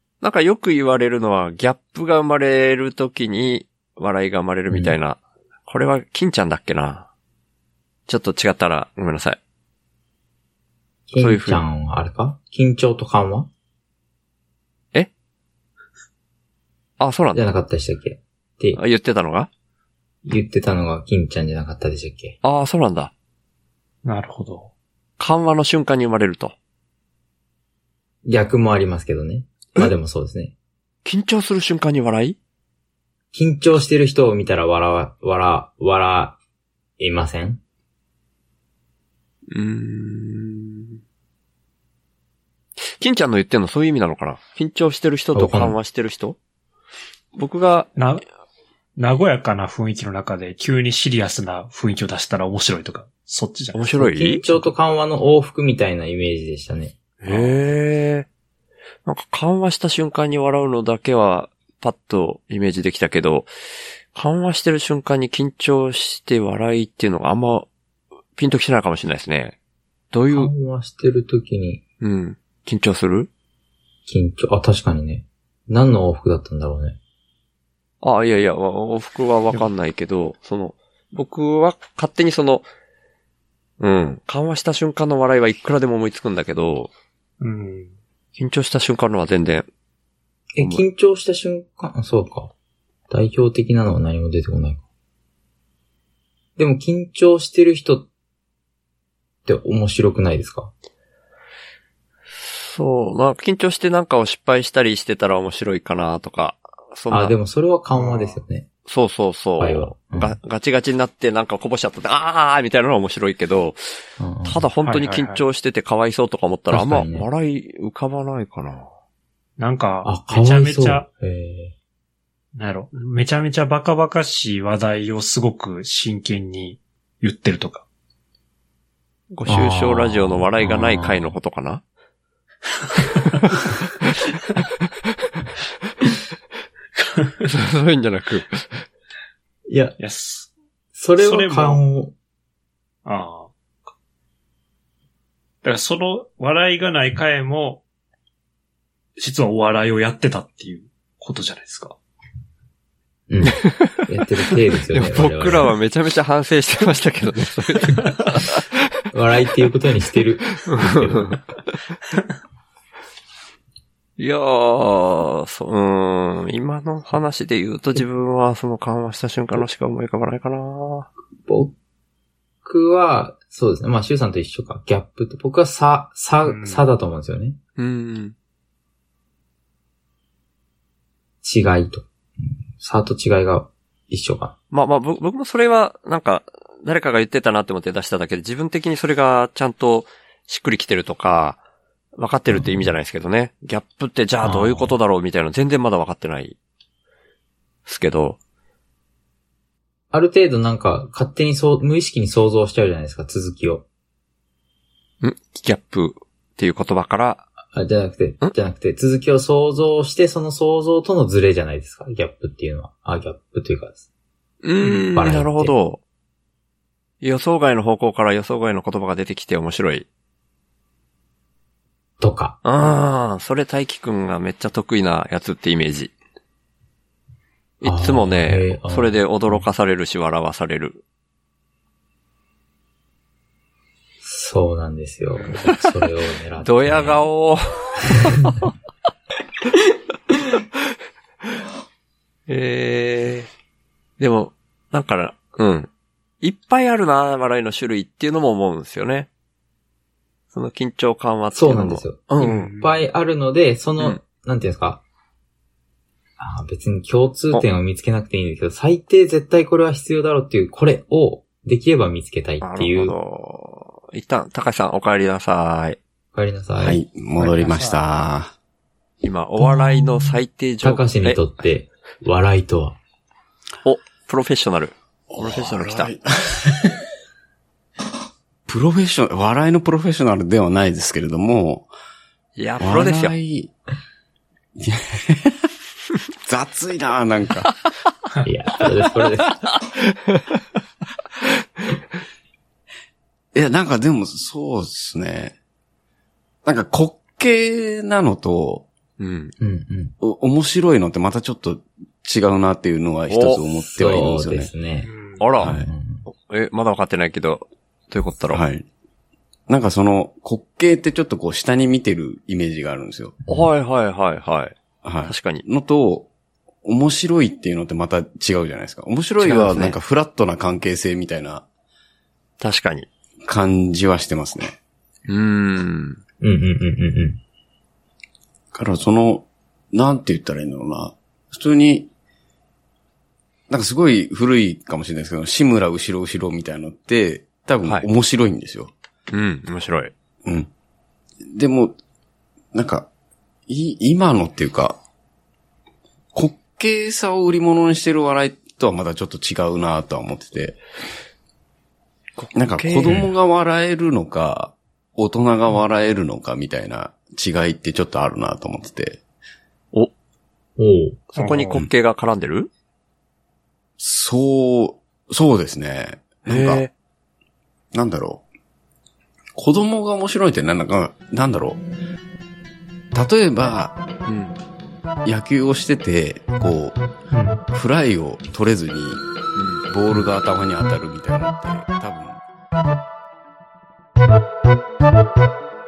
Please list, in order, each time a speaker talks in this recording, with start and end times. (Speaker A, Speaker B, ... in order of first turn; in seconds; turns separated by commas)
Speaker A: 0.2-7.1, Speaker B: 4.7-5.0, Speaker A: 8.1-9.4, Speaker B: 11.1-13.5, Speaker A: 11.2-11.6, Speaker A: 17.0-17.5, Speaker B: 17.4-18.8, Speaker A: 18.8-19.5, Speaker B: 20.3-22.4, Speaker A: 22.4-23.1, Speaker C: 24.1-24.7, Speaker A: 25.2-26.6, Speaker B: 28.2-30.5, Speaker A: 31.1-32.4, Speaker B: 33.3-36.4, Speaker B: 37.0-37.6, Speaker A: 39.5-41.0, Speaker A: 42.8-46.4, Speaker B: 45.3-45.8, Speaker A: 47.4-47.9, Speaker C: 48.0-48.2, Speaker C: 49.0-53.9, Speaker A: 53.7-54.7, Speaker B: 54.0-57.0, Speaker A: 57.2-58.3, Speaker C: 57.3-57.5, Speaker A: 59.0-63.5, Speaker A: 64.1-67.7, Speaker A: 68.3-69.6, Speaker A: 70.1-70.5, Speaker B: 70.3-71.8, Speaker A: 72.0-73.3, Speaker B: 74.1-77.0, Speaker A: 78.0-82.7, Speaker A: 83.8-86.9, Speaker C: 87.4-87.9, Speaker A: 88.4-89.7, Speaker B: 90.5-92.5, Speaker B: 93.1-94.8, Speaker B: 96.6-98.1, Speaker B: 99.5-100.7, Speaker A: 102.5-107.4, Speaker B: 107.1-108.7, Speaker C: 107.9-108.4, Speaker A: 108.9-113.8, Speaker B: 109.6-110.4, Speaker B: 114.2-114.7, Speaker A: 114.5-118.9, Speaker C: 114.8-115.4, Speaker B: 116.7-117.3, Speaker C: 119.6-121.1, Speaker B: 120.0-121.7, Speaker C: 122.6-127.8, Speaker A: 129.3-131.8, Speaker B: 129.5-131.4, Speaker A: 137.5-138.8, Speaker B: 139.7-140.0, Speaker C: 140.0-140.5, Speaker B: 140.9-142.1, Speaker C: 141.2-141.8, Speaker C: 143.1-143.5, Speaker C: 145.6-147.8, Speaker C: 149.2-151.9, Speaker B: 153.3-155.7, Speaker A: 153.5-154.0, Speaker A: 154.9-158.7, Speaker B: 159.1-161.3, Speaker A: 160.7-161.4, Speaker A: 164.2-171.1, Speaker B: 171.4-171.7, Speaker B: 172.6-177.6, Speaker C: 176.5-176.9, Speaker A: 177.8-178.3, Speaker B: 181.4-184.5, Speaker A: 184.7-191.6, Speaker A: 192.2-196.6, Speaker B: 192.5-192.9, Speaker B: 194.4-194.9, Speaker A: 197.9-198.4, Speaker B: 200.1-203.8, Speaker A: 205.2-207.4, Speaker B: 207.7-214.1, Speaker A: 214.6-216.0, Speaker B: 214.8-215.7, Speaker A: 217.2-220.1, Speaker B: 222.2-222.6, Speaker A: 222.7-226.1, Speaker A: 227.8-231.0, Speaker B: 227.8-229.7, Speaker B: 234.2-237.3, Speaker A: 236.6-238.0, Speaker B: 238.3-238.6, Speaker A: 242.5-243.5, Speaker A: 244.2-245.9, Speaker A: 246.4-249.3, Speaker A: 250.5-252.7, Speaker B: 251.5-255.0, Speaker C: 252.4-253.0, Speaker B: 256.4-263.2, Speaker A: 262.6-266.0, Speaker B: 266.3-267.0, Speaker D: 266.8-268.5, Speaker C: 267.4-268.0, Speaker A: 269.2-271.4, Speaker B: 269.6-273.0, Speaker A: 273.9-276.1, Speaker D: 275.3-277.0, Speaker D: 278.7-281.9, Speaker A: 282.6-283.3, Speaker D: 282.8-283.7, Speaker D: 284.8-285.7, Speaker D: 286.5-287.7, Speaker B: 288.4-289.6, Speaker D: 293.5-295.6, Speaker D: 296.6-298.9, Speaker A: 299.2-299.5, Speaker B: 299.6-300.1, Speaker D: 300.2-304.7, Speaker A: 303.3-303.6, Speaker B: 303.9-306.2, Speaker C: 305.0-305.4, Speaker A: 305.4-308.6, Speaker D: 305.6-305.9, Speaker D: 308.5-308.9, Speaker D: 309.7-313.4, Speaker A: 313.5-315.6, Speaker D: 315.0-316.3, Speaker D: 316.8-321.6, Speaker A: 319.4-320.0, Speaker A: 322.6-323.1, Speaker D: 323.4-324.8, Speaker A: 325.3-326.2, Speaker B: 326.4-327.4, Speaker D: 328.7-332.1, Speaker D: 333.7-338.9, Speaker A: 339.3-340.1, Speaker D: 341.5-342.0, Speaker D: 342.7-343.1, Speaker D: 343.7-345.0, Speaker D: 346.3-350.8, Speaker A: 352.4-353.3, Speaker D: 352.6-359.2, Speaker B: 360.8-361.6, Speaker A: 361.3-362.7, Speaker C: 361.4-361.8, Speaker D: 364.0-366.9, Speaker A: 366.5-366.9, Speaker D: 367.9-368.4, Speaker D: 369.6-371.8, Speaker D: 373.1-374.0, Speaker A: 374.3-374.6, Speaker D: 375.2-377.0, Speaker D: 377.7-379.2, Speaker A: 379.6-379.8, Speaker D: 379.9-382.4